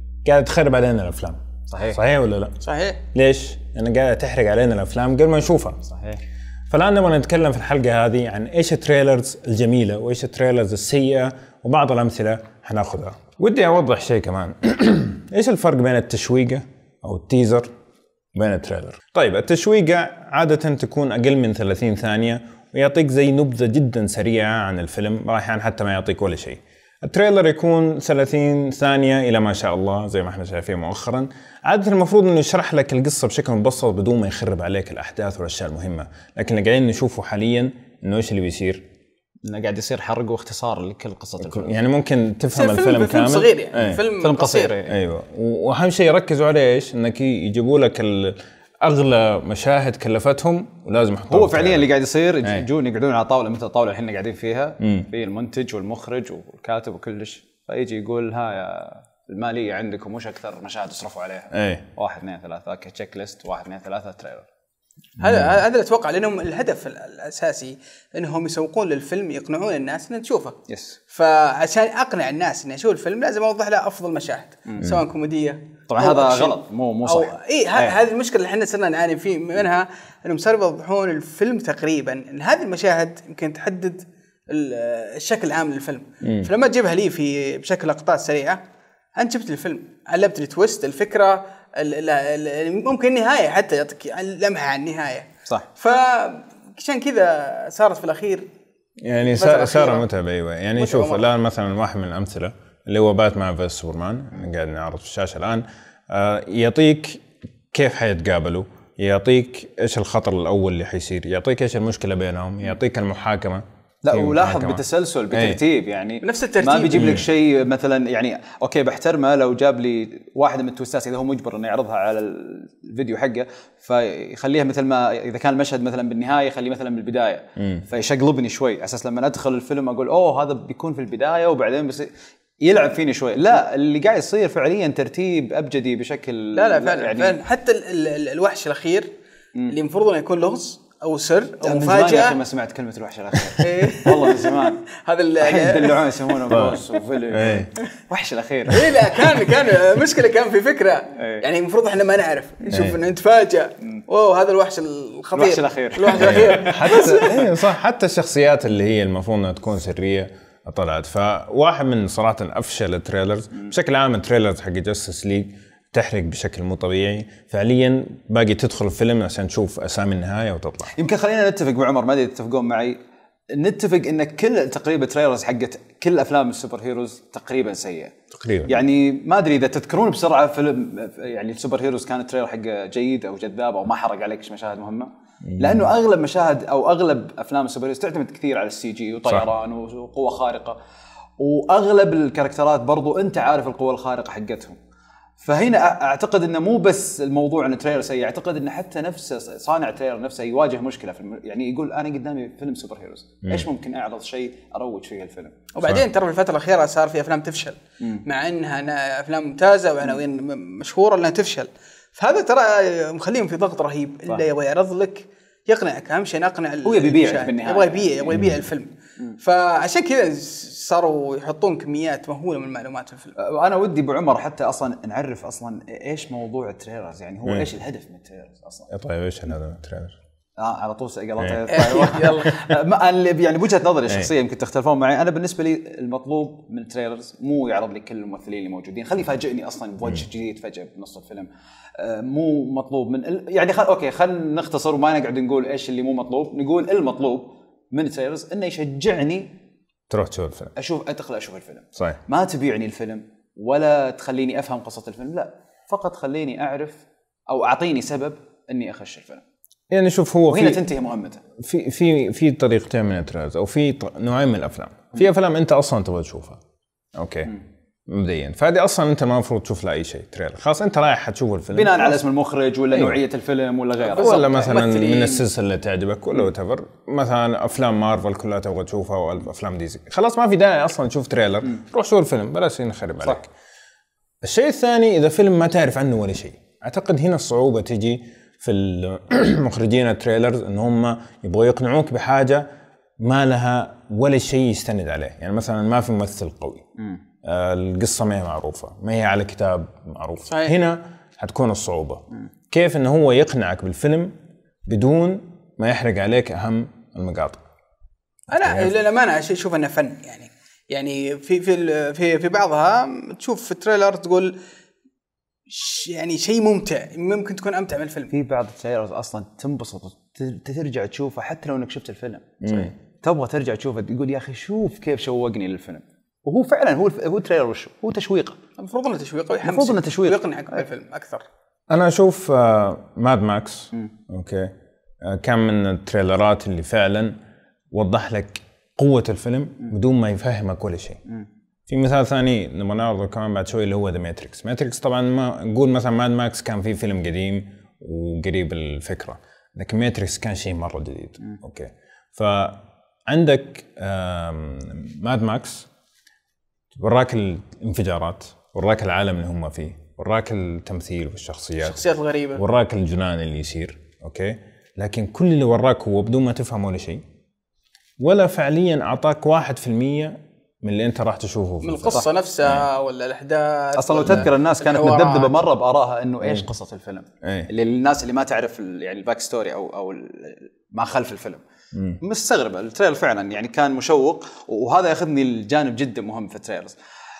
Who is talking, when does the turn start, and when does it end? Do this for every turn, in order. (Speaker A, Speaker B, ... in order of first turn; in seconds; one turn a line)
Speaker A: 0.2-2.5
Speaker B: 1.7-2.0
Speaker C: 2.6-3.0
Speaker A: 3.1-5.8
Speaker B: 5.8-6.2
Speaker A: 6.7-17.7
Speaker A: 18.4-38.8
Speaker B: 39.5-41.8
Speaker A: 41.4-44.0
Speaker C: 42.5-44.8
Speaker B: 44.2-45.0
Speaker A: 44.9-51.9
Speaker B: 51.3-64.5
Speaker A: 54.8-55.1
Speaker A: 61.5-61.8
Speaker C: 65.2-70.5
Speaker A: 65.2-65.5
Speaker B: 70.7-71.0
Speaker C: 71.1-88.6
Speaker B: 74.7-74.9
Speaker B: 75.9-78.0
Speaker C: 89.2-98.5
Speaker A: 99.0-107.2
Speaker C: 99.3-100.0
Speaker C: 100.8-101.2
Speaker A: 107.7-115.6
Speaker B: 114.0-137.4
Speaker C: 116.2-117.2
Speaker A: 117.0-117.2
Speaker A: 127.6-127.8
Speaker C: 136.5-139.1
Speaker C: 139.7-142.4
Speaker B: 141.6-144.8
Speaker C: 143.6-146.6
Speaker B: 145.4-149.2
Speaker A: 146.5-147.7
Speaker C: 148.7-157.4
Speaker B: 151.2-151.4
Speaker A: 152.7-152.9
Speaker B: 155.3-157.5
Speaker A: 156.2-170.9
Speaker B: 170.9-173.0
Speaker B: 173.5-178.1
Speaker A: 178.3-178.8
Speaker B: 178.7-190.8
Speaker A: 185.4-185.9
Speaker B: 191.4-194.8
Speaker B: 195.4-205.6
Speaker C: 205.7-223.3
Speaker B: 216.8-218.6
Speaker B: 223.4-228.9
Speaker A: 228.9-230.2
Speaker B: 230.6-249.6
Speaker C: 231.7-232.6
Speaker A: 250.1-250.7
Speaker B: 250.8-259.4
Speaker A: 259.9-260.9
Speaker B: 260.5-261.4
Speaker A: 261.6-266.6
Speaker A: 267.1-272.2
Speaker B: 271.7-274.8
Speaker A: 274.1-283.5
Speaker C: 274.2-275.4
Speaker A: 284.4-292.6
Speaker A: 293.2-296.8
Speaker A: 297.4-304.3
Speaker C: 300.5-300.8
Speaker A: 304.9-307.6
Speaker C: 308.5-314.6
Speaker A: 308.5-308.9
Speaker C: 315.7-318.3
Speaker B: 318.3-328.6
Speaker A: 322.6-322.9
Speaker C: 328.8-331.4
Speaker B: 329.6-330.8
Speaker A: 331.9-334.7
Speaker A: 335.2-337.4
Speaker A: 337.9-341.2
Speaker A: 341.9-355.9
Speaker A: 356.9-367.2
Speaker C: 361.8-362.6
Speaker A: 368.2-372.8
Speaker C: 371.8-375.6
Speaker B: 373.9-381.6
Speaker A: 377.4-377.7
Speaker A: 381.9-382.2
Speaker B: 382.2-386.9